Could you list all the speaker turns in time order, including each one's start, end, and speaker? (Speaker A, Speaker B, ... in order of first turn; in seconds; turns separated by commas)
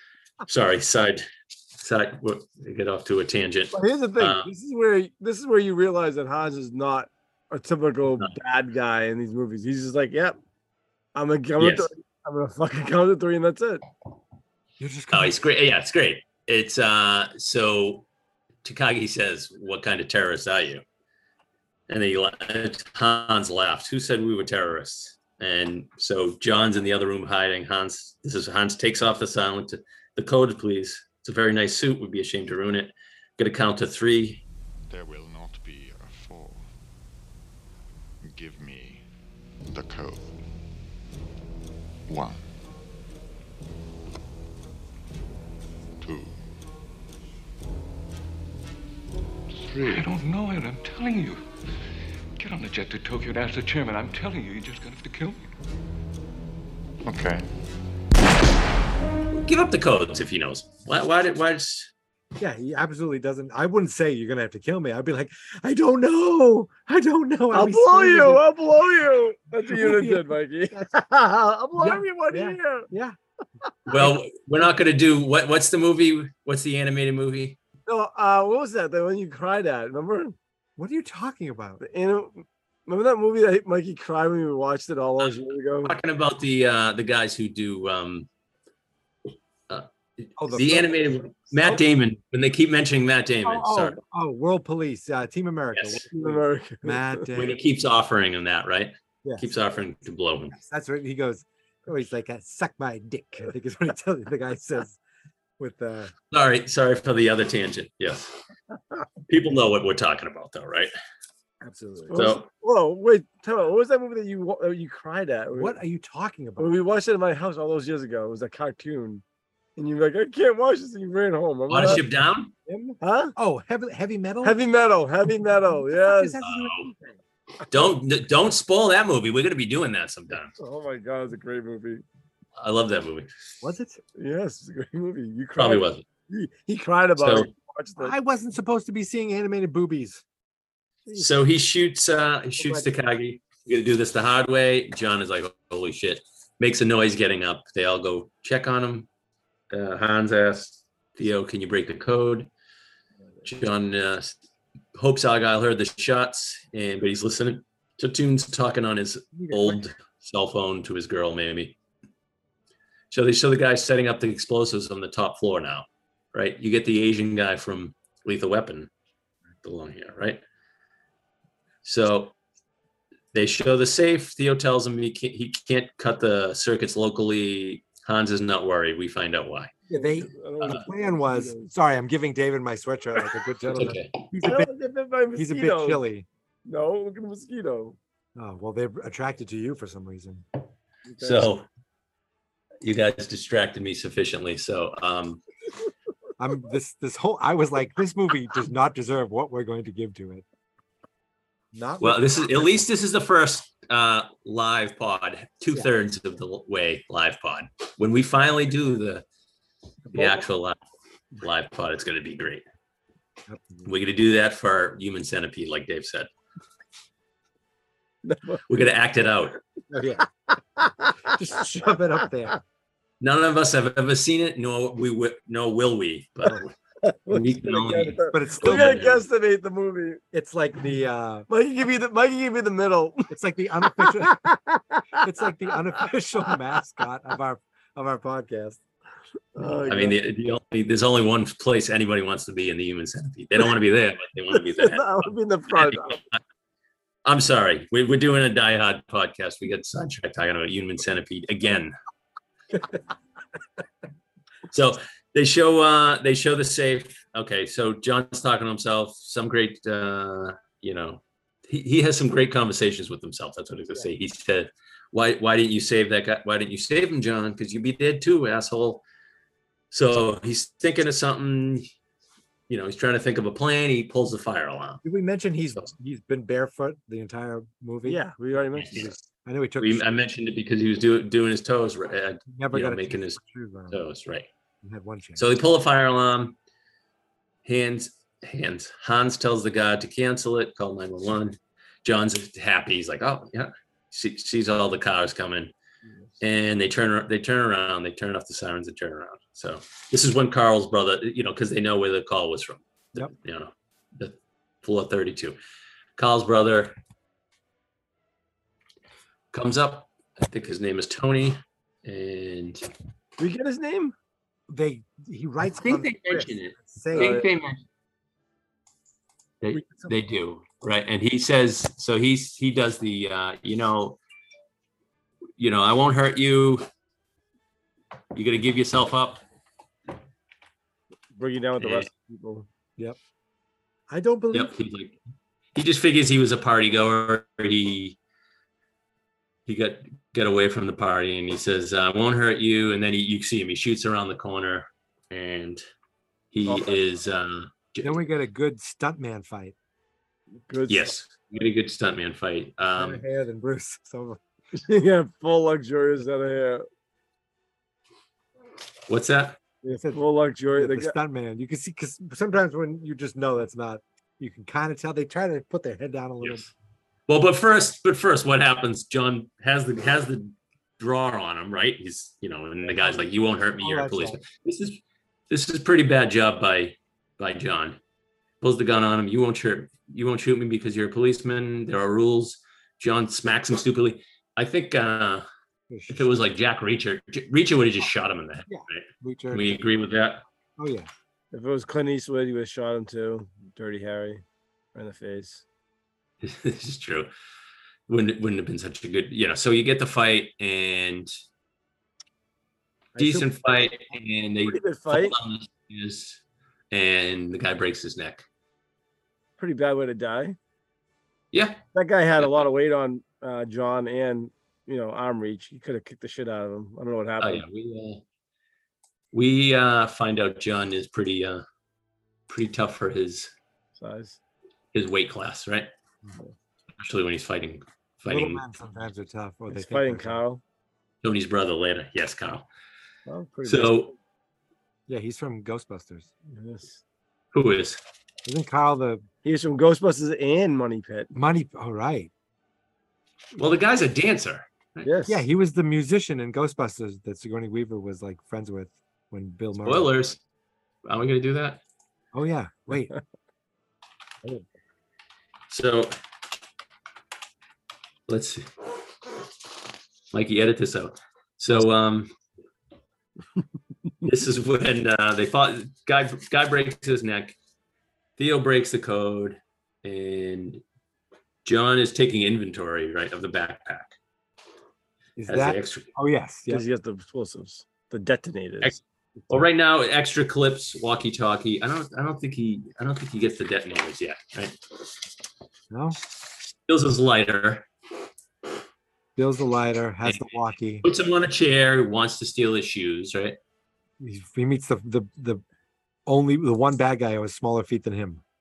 Speaker A: 0.5-1.2, Speaker A: 1.8-4.5, Speaker B: 3.7-10.4, Speaker B: 11.1-13.8, Speaker A: 11.6-11.9, Speaker C: 14.8-15.3, Speaker A: 15.1-18.0, Speaker A: 18.6-20.8, Speaker A: 21.9-34.4, Speaker D: 34.9-36.7, Speaker D: 38.2-39.0, Speaker D: 39.7-40.3, Speaker D: 42.1-42.4, Speaker D: 46.0-46.4, Speaker D: 49.7-50.0, Speaker E: 49.8-51.4, Speaker E: 52.4-55.4, Speaker D: 57.1-57.4, Speaker A: 59.3-61.9, Speaker C: 62.4-68.4, Speaker B: 67.5-72.9, Speaker C: 69.7-70.8, Speaker C: 71.8-73.1, Speaker A: 73.9-77.6, Speaker B: 77.9-80.3, Speaker C: 80.8-81.8, Speaker B: 81.8-85.9, Speaker A: 85.8-88.3, Speaker A: 89.7-94.0, Speaker C: 90.4-91.0, Speaker C: 93.4-97.6, Speaker A: 95.7-96.0, Speaker B: 96.1-97.2, Speaker A: 97.3-100.5, Speaker C: 100.5-105.0, Speaker C: 105.6-106.1, Speaker A: 106.3-108.3, Speaker A: 109.3-110.9, Speaker C: 111.6-112.3, Speaker B: 112.1-115.7, Speaker A: 112.1-112.5, Speaker C: 115.5-116.7, Speaker B: 116.6-119.2, Speaker B: 119.8-122.0, Speaker A: 121.7-122.5, Speaker C: 122.7-124.6, Speaker B: 123.0-123.3, Speaker B: 124.4-126.4, Speaker C: 125.9-126.9, Speaker A: 126.4-126.9, Speaker A: 127.7-130.5, Speaker B: 130.6-132.0, Speaker A: 132.6-133.3, Speaker C: 133.6-134.0, Speaker B: 134.2-138.1, Speaker A: 135.6-136.0, Speaker A: 137.2-137.5, Speaker C: 138.0-140.2, Speaker A: 141.2-149.1, Speaker C: 142.6-142.9, Speaker A: 149.7-152.5, Speaker A: 153.4-154.4, Speaker A: 154.9-161.7, Speaker C: 159.3-159.9, Speaker A: 163.1-168.9, Speaker A: 169.6-170.4, Speaker A: 171.8-172.3, Speaker A: 173.3-179.7, Speaker C: 179.9-184.7, Speaker B: 179.9-181.7, Speaker A: 183.7-184.1, Speaker B: 184.4-186.0, Speaker C: 185.3-186.2, Speaker B: 186.7-188.0, Speaker C: 188.3-190.4, Speaker B: 191.1-191.4, Speaker A: 191.2-191.6, Speaker A: 192.8-195.4, Speaker C: 196.4-200.4, Speaker C: 201.7-202.4, Speaker A: 202.0-209.2, Speaker A: 210.1-210.8, Speaker A: 211.4-212.6, Speaker C: 213.5-213.9, Speaker A: 213.8-216.3, Speaker B: 218.2-218.6, Speaker A: 218.7-219.6, Speaker C: 219.9-220.2, Speaker C: 221.3-222.6, Speaker A: 223.2-226.7, Speaker B: 227.0-230.2, Speaker A: 227.3-229.2, Speaker C: 228.3-229.1, Speaker C: 230.3-231.5, Speaker B: 231.5-233.3, Speaker C: 233.3-234.4, Speaker B: 234.1-234.8, Speaker C: 235.2-238.8, Speaker B: 239.6-240.2, Speaker A: 239.8-246.4, Speaker B: 244.7-246.2, Speaker A: 247.2-251.9, Speaker A: 254.7-269.0, Speaker A: 269.9-271.9, Speaker A: 272.7-275.0, Speaker C: 275.0-278.2, Speaker B: 278.1-279.1, Speaker A: 278.7-279.1, Speaker C: 278.9-280.0, Speaker A: 279.8-283.4, Speaker C: 282.5-284.0, Speaker A: 283.9-284.5, Speaker C: 284.8-285.4, Speaker A: 285.4-286.5, Speaker A: 287.6-295.7, Speaker A: 296.4-305.6, Speaker A: 306.2-306.9, Speaker A: 309.5-312.9, Speaker B: 313.4-314.1, Speaker C: 314.7-317.4, Speaker A: 315.7-317.8, Speaker B: 317.1-317.4, Speaker A: 319.6-324.2, Speaker A: 325.6-326.9, Speaker A: 328.3-329.4, Speaker B: 331.3-332.7, Speaker A: 331.8-332.1, Speaker C: 334.1-334.7, Speaker A: 334.5-335.2, Speaker A: 335.7-338.1, Speaker A: 339.6-345.8, Speaker A: 346.5-348.2, Speaker B: 346.6-346.9, Speaker C: 348.0-349.7, Speaker B: 350.7-351.1, Speaker A: 350.9-353.2, Speaker C: 353.0-354.4, Speaker B: 354.8-356.8, Speaker A: 359.1-359.6, Speaker B: 359.9-361.1, Speaker C: 359.9-360.2, Speaker C: 360.7-366.6, Speaker A: 367.3-375.0, Speaker C: 372.8-374.4, Speaker A: 375.5-378.0, Speaker A: 378.6-385.4, Speaker C: 385.9-386.3, Speaker A: 386.1-390.4, Speaker C: 388.7-389.9, Speaker C: 390.8-391.1, Speaker B: 391.5-394.4, Speaker B: 394.9-395.6, Speaker A: 396.4-397.3, Speaker A: 398.1-401.3, Speaker C: 403.1-403.5, Speaker A: 403.2-408.4, Speaker B: 404.7-405.3, Speaker B: 409.6-410.6, Speaker A: 411.5-411.8, Speaker B: 411.9-417.6, Speaker A: 417.4-418.2, Speaker A: 419.3-421.6, Speaker A: 422.5-423.5, Speaker B: 424.0-424.4, Speaker A: 424.9-425.9, Speaker A: 427.0-428.6, Speaker C: 428.2-430.4, Speaker B: 429.7-430.6, Speaker A: 431.2-432.6, Speaker B: 433.3-433.9, Speaker A: 433.6-434.1, Speaker C: 435.1-436.3, Speaker B: 436.5-437.0, Speaker A: 437.5-438.0, Speaker C: 438.4-439.2, Speaker B: 439.4-441.3, Speaker C: 441.3-442.3, Speaker A: 443.6-445.1, Speaker B: 445.0-445.4, Speaker C: 445.3-450.1, Speaker A: 449.8-450.4, Speaker A: 451.0-451.8, Speaker C: 452.3-453.1, Speaker A: 455.7-456.1, Speaker A: 458.3-458.6, Speaker A: 460.3-462.3, Speaker A: 464.2-467.6, Speaker A: 468.4-470.8, Speaker A: 471.6-474.1, Speaker C: 475.4-476.8, Speaker A: 475.5-476.1, Speaker B: 476.7-478.9, Speaker A: 479.5-484.8, Speaker C: 485.9-486.2, Speaker A: 486.9-487.9, Speaker C: 489.4-491.0, Speaker A: 490.2-490.5, Speaker A: 491.0-493.6, Speaker C: 494.2-495.6, Speaker C: 496.2-498.4